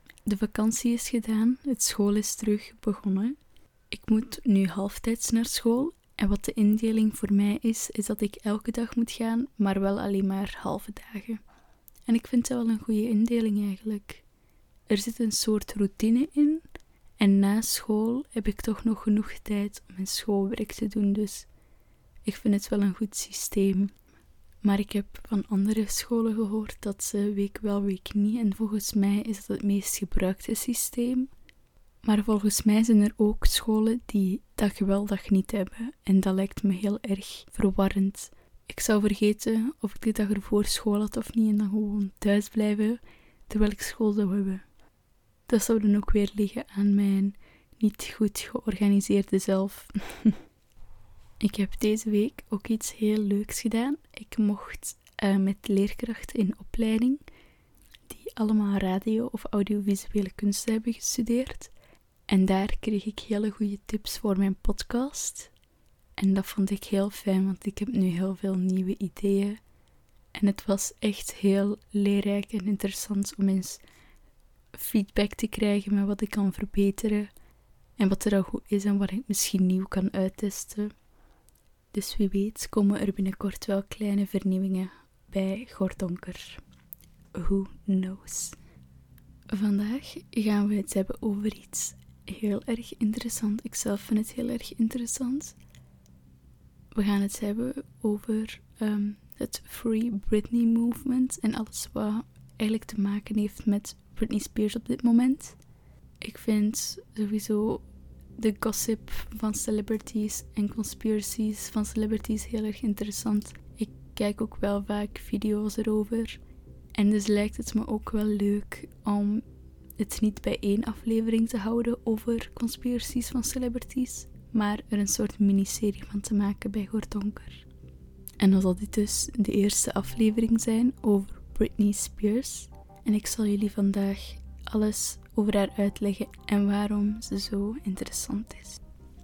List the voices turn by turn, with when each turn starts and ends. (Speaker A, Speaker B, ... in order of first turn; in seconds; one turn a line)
Speaker A: 0.2-3.4
Speaker A: 3.9-11.4
Speaker A: 12.1-14.2
Speaker A: 14.9-16.6
Speaker A: 17.2-21.5
Speaker A: 22.2-23.9
Speaker A: 24.6-31.3
Speaker A: 32.0-44.6
Speaker A: 45.5-50.4
Speaker A: 51.4-57.2
Speaker A: 58.1-61.7
Speaker A: 62.3-65.5
Speaker A: 66.2-69.6
Speaker A: 70.3-73.8
Speaker A: 74.7-77.3
Speaker A: 78.0-80.9
Speaker A: 81.9-86.6
Speaker A: 87.3-88.6
Speaker A: 89.5-95.5
Speaker A: 96.9-105.6
Speaker A: 106.2-107.8
Speaker A: 108.4-116.4
Speaker A: 116.9-119.4
Speaker A: 120.0-127.6
Speaker A: 128.4-138.8